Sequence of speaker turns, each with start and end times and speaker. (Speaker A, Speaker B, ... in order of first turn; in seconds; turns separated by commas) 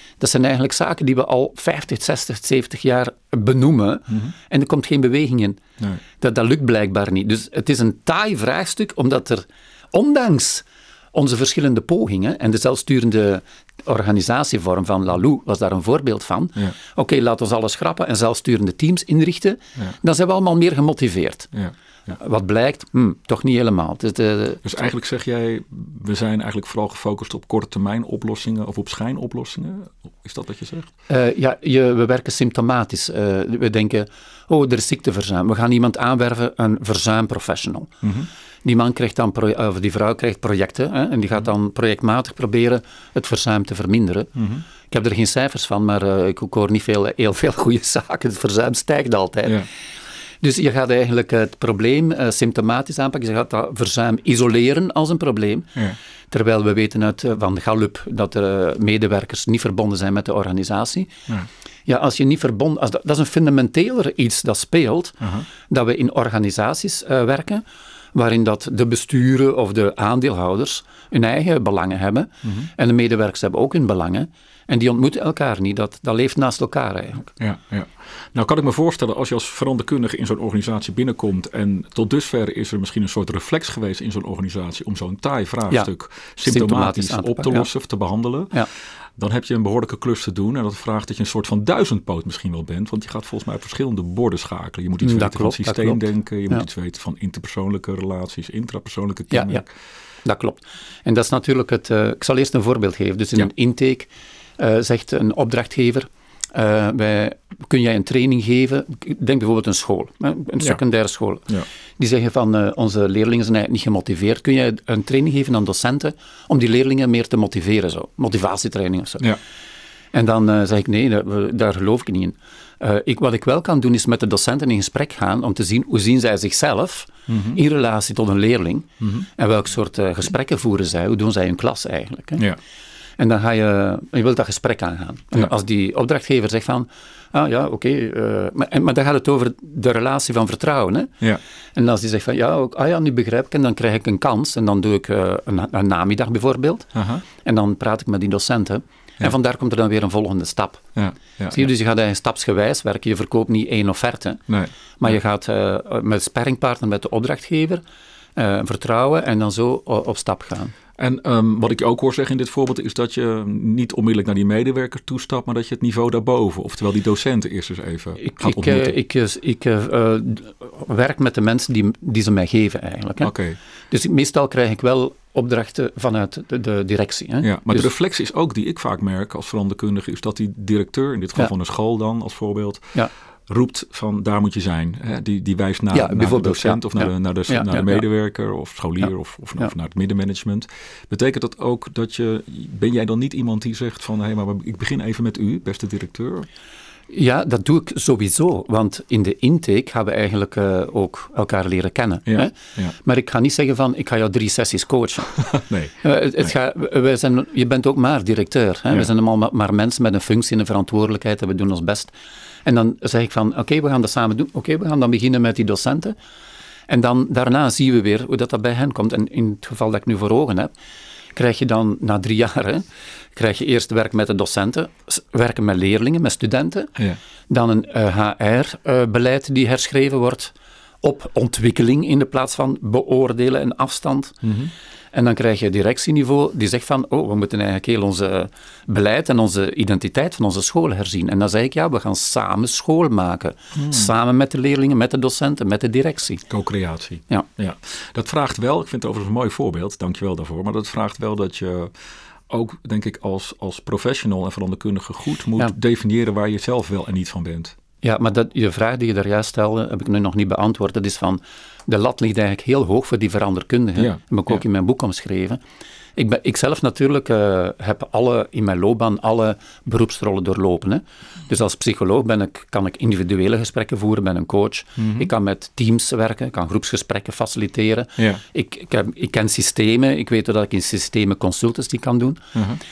Speaker A: 0.2-5.6, Speaker A: 6.2-21.5, Speaker B: 21.5-22.1, Speaker A: 22.1-24.6, Speaker B: 24.6-30.9, Speaker A: 31.1-37.9, Speaker B: 38.0-38.3, Speaker A: 38.6-44.3, Speaker B: 44.4-44.6, Speaker A: 44.9-49.6, Speaker A: 50.4-55.7, Speaker A: 56.3-61.1, Speaker A: 61.9-77.3, Speaker B: 65.2-65.5, Speaker B: 77.4-88.6, Speaker A: 86.5-87.7, Speaker B: 89.2-99.7, Speaker A: 95.0-96.7, Speaker A: 99.3-99.6, Speaker A: 100.2-119.3, Speaker A: 120.1-132.4, Speaker B: 127.3-127.6, Speaker B: 129.0-129.3, Speaker A: 133.2-141.2, Speaker A: 141.8-150.8, Speaker B: 146.9-147.2, Speaker B: 150.9-151.7, Speaker A: 151.5-154.4, Speaker B: 154.5-155.2, Speaker A: 155.0-157.8, Speaker A: 158.4-160.7, Speaker B: 161.0-169.0, Speaker A: 168.2-173.3, Speaker B: 173.2-173.6, Speaker A: 173.9-177.9, Speaker B: 177.4-182.9, Speaker B: 183.5-196.5, Speaker A: 185.9-188.0, Speaker A: 197.1-205.4, Speaker B: 202.3-202.9, Speaker B: 205.4-206.5, Speaker A: 206.0-212.1, Speaker A: 212.7-216.2, Speaker A: 216.9-220.7, Speaker A: 221.3-226.9, Speaker A: 227.5-234.4, Speaker B: 234.4-234.7, Speaker A: 235.1-246.4, Speaker B: 243.8-244.1, Speaker B: 246.5-251.9, Speaker B: 252.5-257.8, Speaker A: 258.0-265.6, Speaker B: 264.0-264.6, Speaker A: 266.2-282.5, Speaker B: 275.0-275.3, Speaker B: 278.2-278.4, Speaker B: 282.5-282.8